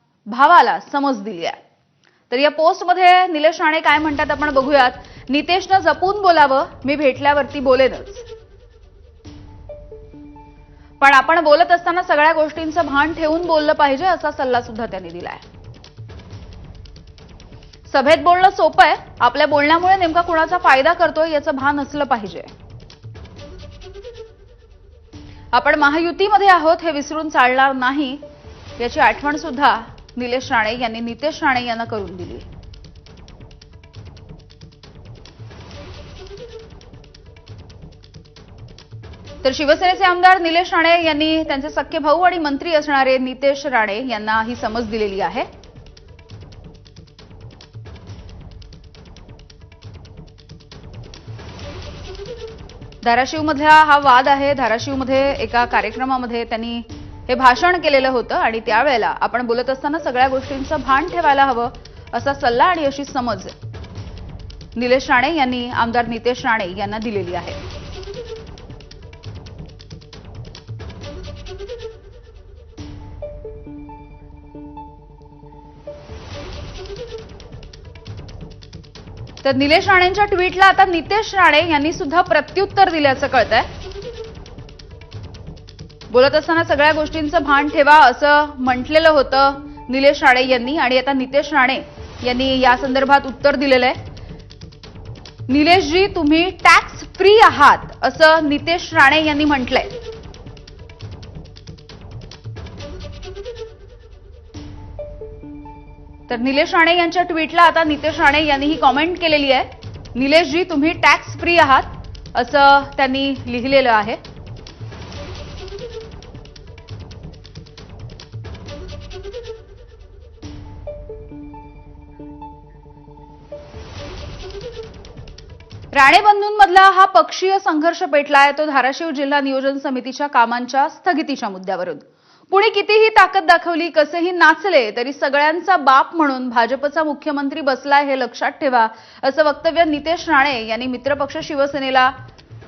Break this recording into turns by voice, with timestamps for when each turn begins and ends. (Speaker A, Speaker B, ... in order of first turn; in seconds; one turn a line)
Speaker A: 0.3-1.6
Speaker A: 2.3-8.2
Speaker A: 11.0-15.4
Speaker A: 17.9-22.5
Speaker A: 25.5-28.2
Speaker A: 28.8-32.5
Speaker A: 39.4-45.5
Speaker A: 53.0-63.5
Speaker A: 64.8-67.6
Speaker A: 79.4-83.7
Speaker A: 86.1-94.0
Speaker A: 95.5-99.9
Speaker A: 106.3-114.2
Speaker A: 125.9-142.1